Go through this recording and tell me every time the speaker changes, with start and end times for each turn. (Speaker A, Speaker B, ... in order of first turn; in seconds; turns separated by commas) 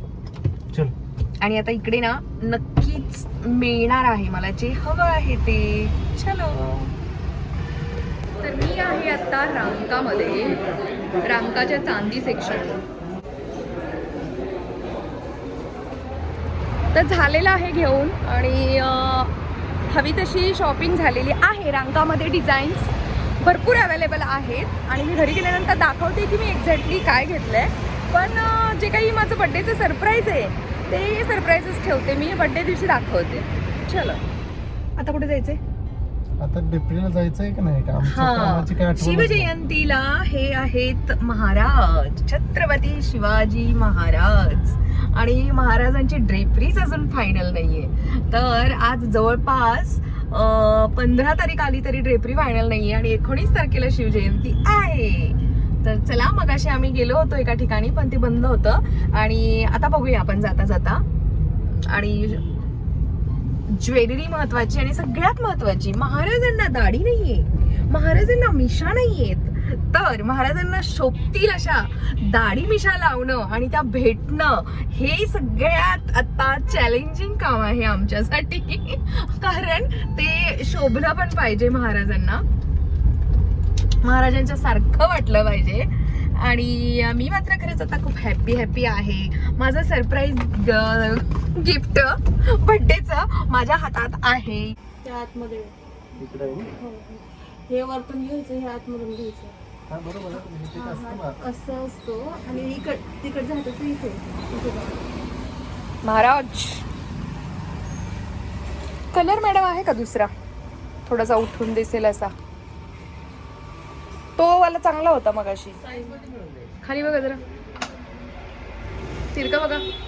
Speaker A: 1.4-6.6, Speaker B: 6.5-7.0, Speaker A: 8.4-10.7, Speaker A: 11.2-12.8, Speaker A: 16.9-19.4, Speaker A: 19.9-34.2, Speaker A: 35.0-35.6, Speaker B: 36.4-39.5, Speaker A: 38.0-61.0, Speaker A: 61.7-62.5, Speaker A: 63.7-82.4, Speaker A: 84.0-94.8, Speaker C: 95.0-95.7, Speaker B: 96.2-96.7, Speaker C: 96.8-99.5, Speaker B: 99.9-101.4, Speaker C: 100.7-105.1, Speaker A: 106.0-106.9, Speaker A: 109.1-110.3, Speaker A: 111.1-112.3, Speaker A: 114.4-116.2, Speaker B: 116.0-116.4, Speaker A: 116.8-117.4, Speaker A: 119.3-119.8